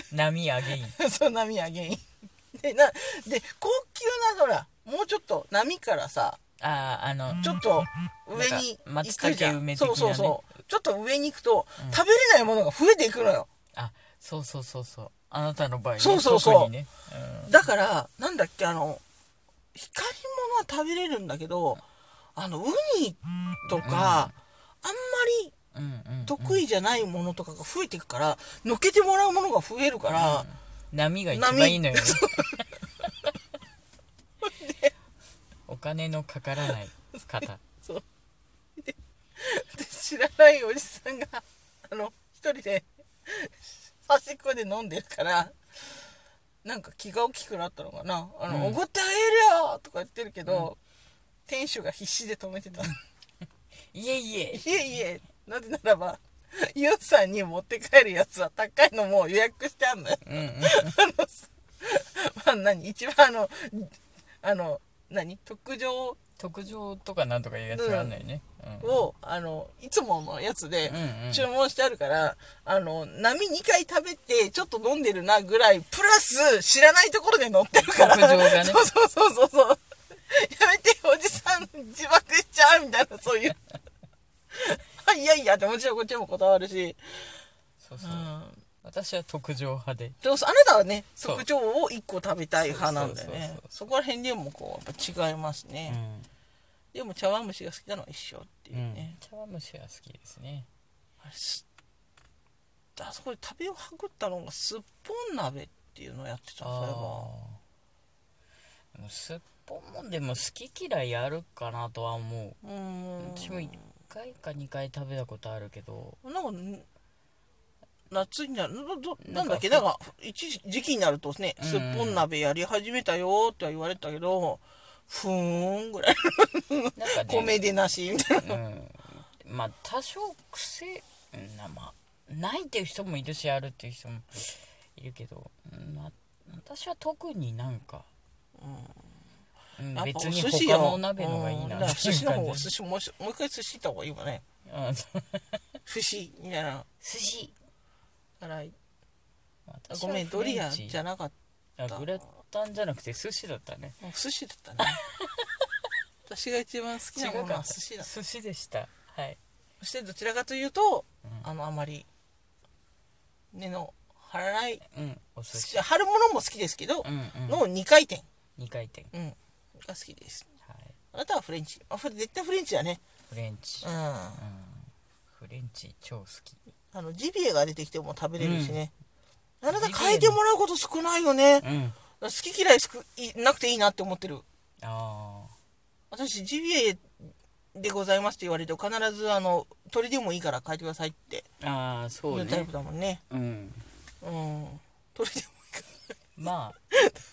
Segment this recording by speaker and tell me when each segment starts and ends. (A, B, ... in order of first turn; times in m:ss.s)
0:00.1-0:01.0 A
0:01.0-0:06.4 B
0:06.6-0:07.6 A
0:07.4-0:13.5 B
0:08.3-0:10.4 A
0:13.8-0:17.6 A
0:16.0-0:16.7 B
0:17.5-0:19.0 B
0:19.7-0:21.8 B
0:22.4-0:25.5 B
0:23.7-0:24.3 A
0:25.7-0:26.6 A
0:26.2-0:30.5 B
0:30.1-0:32.6 A
0:31.3-0:32.6 B
0:34.4-0:34.9 B
0:35.7-0:37.6 A
0:38.8-0:45.6 B
0:46.6-0:50.8 B
0:48.5-0:48.8 A
0:51.5-0:53.0 B
0:53.9-0:54.7 A
0:54.5-1:06.2 B
1:00.2-1:01.0 A
1:06.4-1:09.1 A
1:07.7-1:08.2 B
1:08.8-1:23.6 B
1:10.9-1:11.5 A
1:17.9-1:18.8 A
1:24.5-1:27.0 B
1:27.8-1:28.3 A
1:28.0-1:28.6 B
1:28.8-1:30.2 A
1:30.2-1:36.0 B
1:31.2-1:31.4 A
1:32.6-1:33.7 A
1:35.9-1:36.3 A
1:36.9-1:39.2 B
1:38.7-1:40.7 A
1:41.2-1:41.6 B
1:43.0-1:47.3 B
1:46.6-1:47.6 A
1:48.9-1:52.6 A
1:52.6-1:53.8 B
1:53.2-1:56.2 A
1:56.2-1:56.9 B
1:58.1-2:08.6 B
1:59.2-1:59.9 A
2:01.6-2:02.3 A
2:07.0-2:07.6 A
2:08.4-2:18.1 A
2:18.6-2:19.2 B
2:19.8-2:22.7 A
2:19.9-2:24.4 B
2:24.7-2:25.6 A
2:25.9-2:26.9 B
2:27.0-2:27.6 A
2:28.4-2:28.8 B
2:29.7-2:31.0 A
2:29.9-2:31.4 B
2:31.8-2:34.0 A
2:34.0-2:35.0 B
2:34.8-2:35.5 A
2:36.3-2:38.1 B
2:37.1-2:39.4 A
2:39.8-2:42.1 B
2:43.5-2:44.8 B
2:44.9-2:45.8 A
2:45.5-2:48.2 B
2:47.0-2:47.6 A
2:48.6-2:49.1 A
2:49.1-2:50.5 B
2:50.7-2:50.9 A
2:51.1-2:53.0 B
2:53.3-2:56.6 A
2:53.8-2:54.4 B
2:56.9-2:58.9 B
2:58.4-2:58.8 A
2:59.6-3:01.7 B
2:59.7-3:00.4 A
3:01.6-3:02.0 A
3:02.2-3:04.4 B
3:04.8-3:05.5 A
3:06.1-3:07.2 B
3:07.8-3:11.5 B
3:11.6-3:12.7 A
3:12.3-3:13.2 B
3:13.3-3:13.8 A
3:14.2-3:15.9 B
3:16.4-3:16.8 A